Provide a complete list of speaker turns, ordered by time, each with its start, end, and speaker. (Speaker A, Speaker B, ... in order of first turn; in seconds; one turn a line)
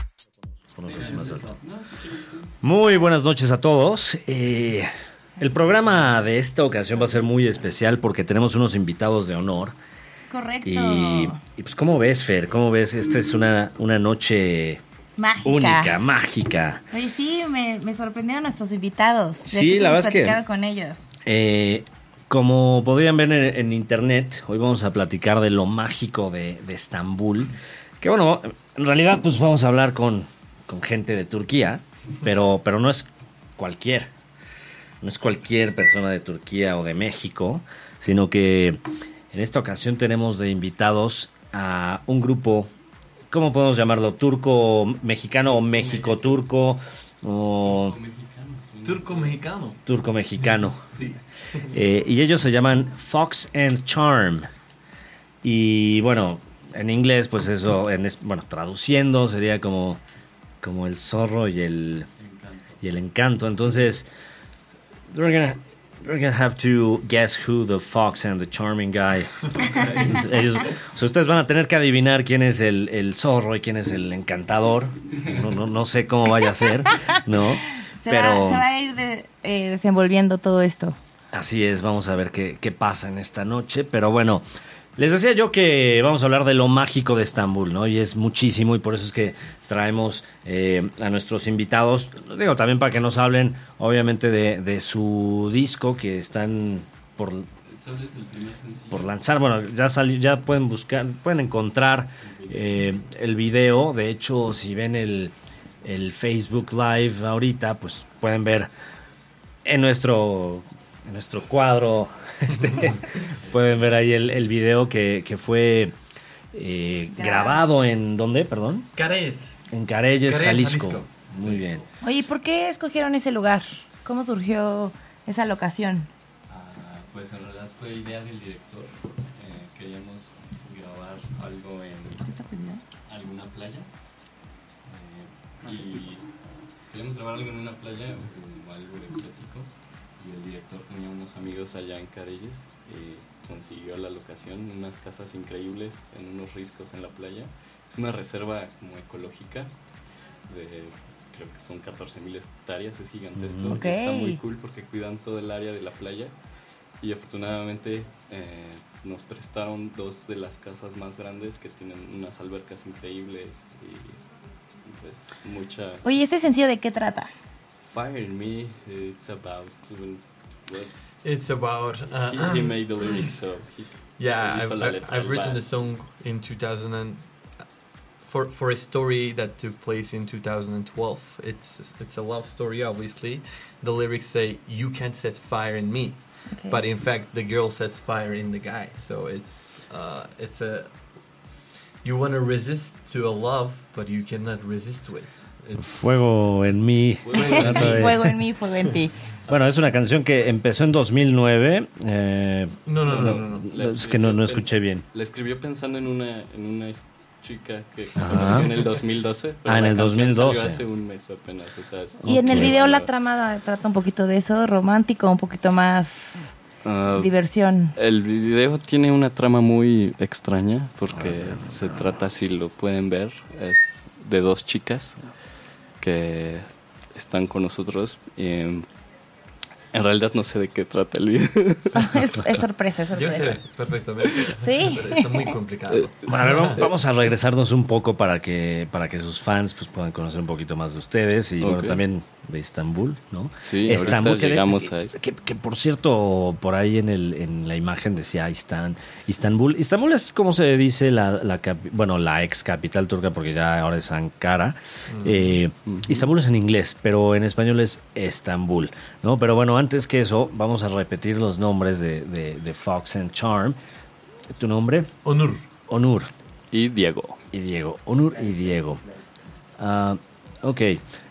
Speaker A: 0.7-1.5
Speaker B: 0.9-2.5
Speaker A: 2.6-4.9
Speaker A: 5.4-9.8
Speaker C: 10.3-11.4
Speaker A: 10.6-14.8
Speaker C: 15.2-15.9
Speaker A: 15.4-16.8
Speaker C: 16.9-21.1
Speaker A: 19.4-20.4
Speaker A: 21.2-34.1
Speaker A: 35.0-38.8
Speaker A: 39.3-42.7
Speaker A: 43.3-48.0
Speaker B: 45.5-46.2
Speaker B: 47.6-49.4
Speaker D: 48.8-49.8
Speaker A: 49.9-50.8
Speaker D: 50.9-51.8
Speaker A: 51.7-54.5
Speaker A: 55.4-60.0
Speaker A: 60.6-62.1
Speaker B: 62.2-62.8
Speaker A: 62.8-64.1
Speaker A: 65.1-78.7
Speaker B: 69.8-70.2
Speaker C: 78.0-81.0
Speaker A: 81.3-84.4
Speaker A: 85.0-97.5
Speaker B: 97.7-99.1
Speaker A: 98.9-108.7
Speaker B: 102.2-103.0
Speaker A: 109.7-116.0
Speaker D: 112.6-113.0
Speaker B: 113.4-113.7
Speaker A: 116.5-118.9
Speaker C: 117.1-117.6
Speaker D: 119.0-119.6
Speaker A: 119.7-121.8
Speaker D: 120.2-121.2
Speaker B: 121.3-121.8
Speaker C: 122.0-126.1
Speaker B: 126.5-132.2
Speaker C: 132.2-132.8
Speaker B: 133.1-133.9
Speaker B: 134.8-136.2
Speaker B: 136.9-149.7
Speaker B: 150.5-156.3
Speaker A: 153.3-153.8
Speaker C: 153.7-154.4
Speaker B: 157.0-164.2
Speaker B: 164.8-166.0
Speaker C: 166.0-167.3
Speaker B: 167.9-170.9
Speaker D: 171.2-173.3
Speaker B: 172.1-175.7
Speaker D: 174.2-177.3
Speaker D: 178.2-190.9
Speaker C: 186.5-186.8
Speaker D: 192.0-196.2
Speaker A: 195.8-198.3
Speaker B: 197.2-198.1
Speaker D: 197.3-198.2
Speaker C: 197.7-199.1
Speaker A: 199.5-202.8
Speaker D: 202.8-203.7
Speaker B: 203.1-213.1
Speaker A: 203.6-205.0
Speaker A: 208.2-208.7
Speaker D: 208.3-208.7
Speaker A: 209.7-210.8
Speaker A: 212.2-212.8
Speaker C: 212.2-216.5
Speaker B: 216.8-217.3
Speaker C: 217.2-217.9
Speaker B: 217.9-225.3
Speaker A: 221.2-222.0
Speaker B: 226.0-228.9
Speaker B: 229.9-232.2
Speaker C: 231.9-233.6
Speaker D: 233.1-236.9
Speaker B: 234.3-234.5
Speaker C: 234.6-235.4
Speaker A: 236.3-263.8
Speaker B: 241.6-242.0
Speaker B: 243.6-245.2
Speaker D: 255.1-255.6
Speaker B: 255.9-256.3
Speaker A: 264.5-265.1
Speaker D: 265.2-265.6
Speaker A: 265.9-266.3
Speaker B: 266.7-267.4
Speaker A: 267.5-269.0
Speaker A: 269.8-271.0